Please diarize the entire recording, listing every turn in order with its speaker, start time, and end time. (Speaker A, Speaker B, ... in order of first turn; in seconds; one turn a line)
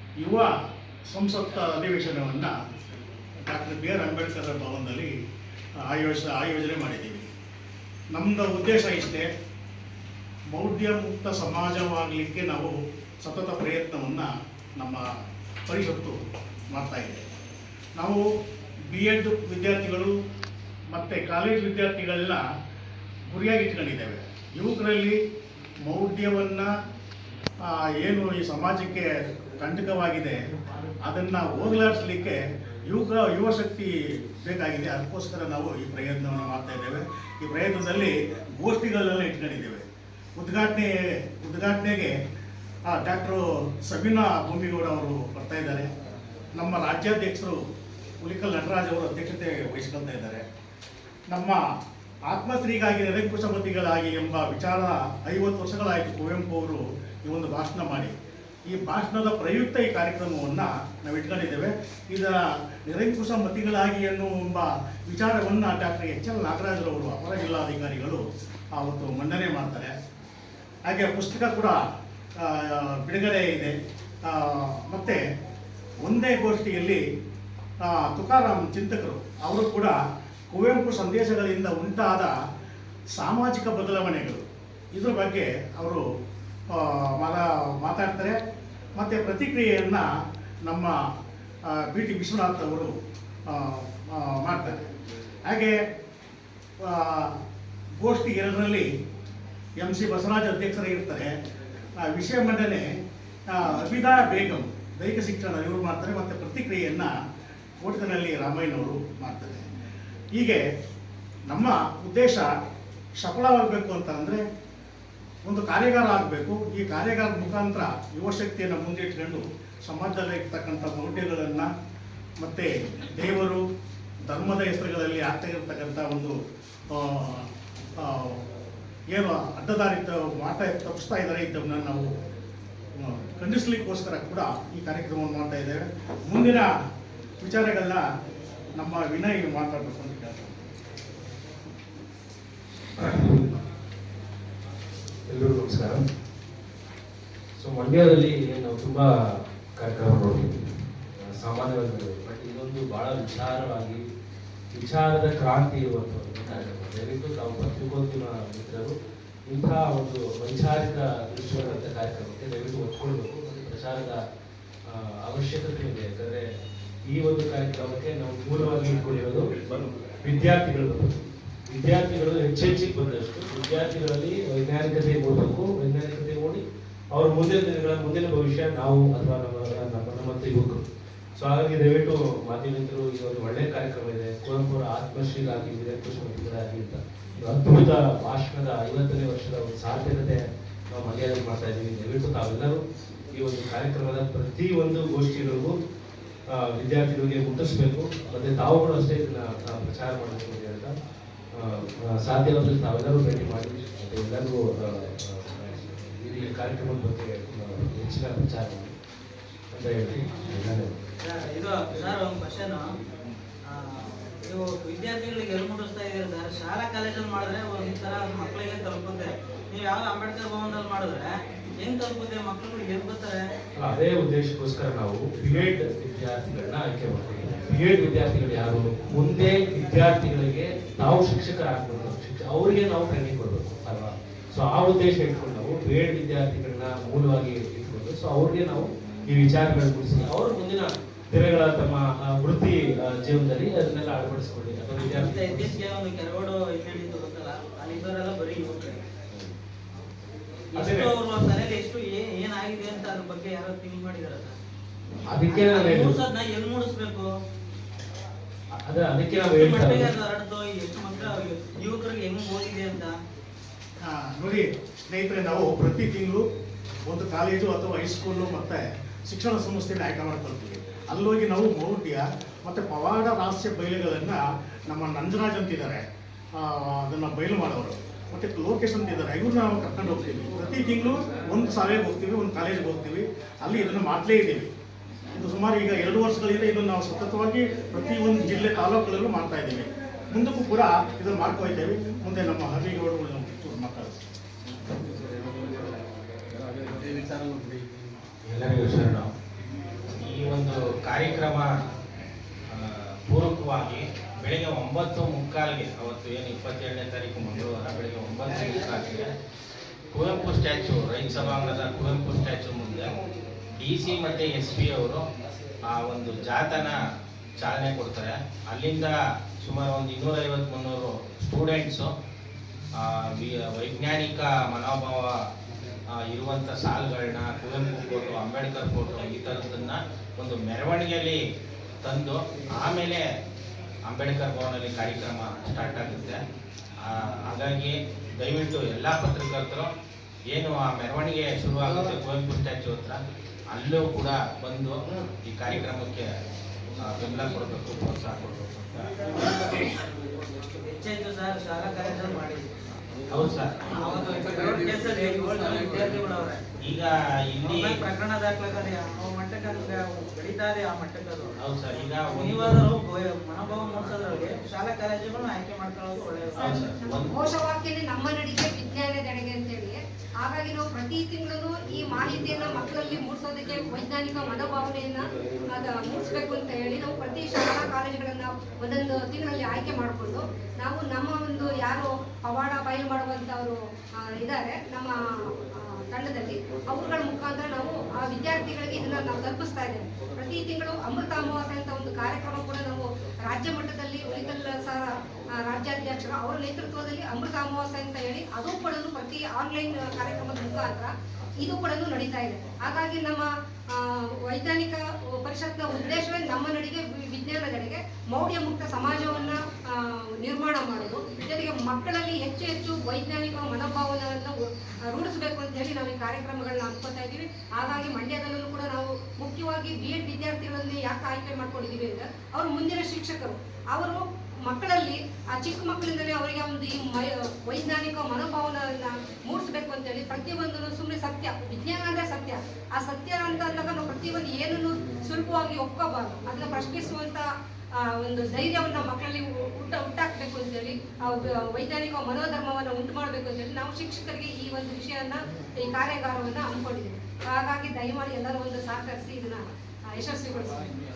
Speaker A: 0.2-0.5
Speaker A: 1.1-2.5
Speaker A: 3.4-5.1
Speaker A: 5.8-7.3
Speaker A: 8.1-9.3
Speaker A: 10.5-15.0
Speaker A: 15.7-16.2
Speaker A: 16.7-17.2
Speaker A: 18.0-18.2
Speaker A: 18.9-20.1
Speaker A: 20.9-22.4
Speaker A: 23.3-25.2
Speaker A: 25.8-26.7
Speaker A: 27.6-30.4
Speaker A: 31.0-39.8
Speaker A: 40.4-42.1
Speaker A: 42.9-45.9
Speaker A: 46.5-47.6
Speaker A: 48.2-50.4
Speaker A: 51.3-51.6
Speaker A: 52.3-58.1
Speaker A: 58.7-68.2
Speaker A: 68.7-69.9
Speaker A: 70.8-71.8
Speaker A: 72.4-75.2
Speaker A: 76.0-77.0
Speaker A: 77.8-80.0
Speaker A: 80.5-82.3
Speaker A: 83.1-86.0
Speaker A: 86.7-88.4
Speaker A: 89.0-90.1
Speaker A: 90.6-90.9
Speaker A: 91.7-92.9
Speaker A: 93.5-94.8
Speaker A: 95.5-95.8
Speaker A: 96.8-97.4
Speaker A: 98.0-98.9
Speaker A: 99.8-101.3
Speaker A: 102.0-102.8
Speaker A: 103.5-107.1
Speaker A: 107.8-109.7
Speaker A: 110.3-110.6
Speaker A: 111.5-112.5
Speaker A: 113.2-114.4
Speaker A: 115.4-121.7
Speaker A: 122.4-123.6
Speaker A: 124.2-126.3
Speaker A: 126.9-127.5
Speaker A: 128.0-128.4
Speaker A: 129.1-132.1
Speaker A: 132.9-136.7
Speaker A: 137.4-138.0
Speaker A: 138.8-140.7
Speaker B: 143.0-143.4
Speaker B: 145.3-146.0
Speaker B: 147.6-154.0
Speaker B: 154.7-158.9
Speaker B: 159.5-164.2
Speaker B: 164.8-166.4
Speaker B: 167.1-180.8
Speaker B: 181.4-195.8
Speaker B: 196.5-200.9
Speaker B: 201.6-208.9
Speaker B: 209.7-211.0
Speaker C: 211.2-212.8
Speaker C: 213.7-221.3
Speaker C: 221.8-223.4
Speaker B: 223.8-245.8
Speaker C: 245.0-249.0
Speaker C: 250.7-254.5
Speaker B: 250.8-251.1
Speaker B: 255.3-256.2
Speaker C: 255.5-257.3
Speaker B: 258.8-260.1
Speaker C: 259.5-263.1
Speaker A: 264.0-266.4
Speaker A: 267.1-276.0
Speaker A: 276.5-284.7
Speaker A: 285.3-294.2
Speaker B: 298.5-299.3
Speaker D: 300.1-301.7
Speaker D: 302.7-309.3
Speaker D: 310.1-313.1
Speaker D: 313.8-315.2
Speaker D: 315.9-317.0
Speaker D: 317.6-322.1
Speaker D: 322.9-325.4
Speaker D: 326.1-331.4
Speaker D: 332.0-333.2
Speaker D: 334.1-336.4
Speaker D: 337.0-339.9
Speaker D: 340.5-343.2
Speaker D: 343.7-346.2
Speaker D: 347.0-349.1
Speaker C: 350.9-352.7
Speaker D: 353.3-354.0
Speaker C: 353.9-356.7
Speaker D: 356.8-358.0
Speaker C: 357.6-361.5
Speaker D: 361.6-362.9
Speaker C: 362.3-366.9
Speaker D: 366.6-367.5
Speaker E: 366.6-450.9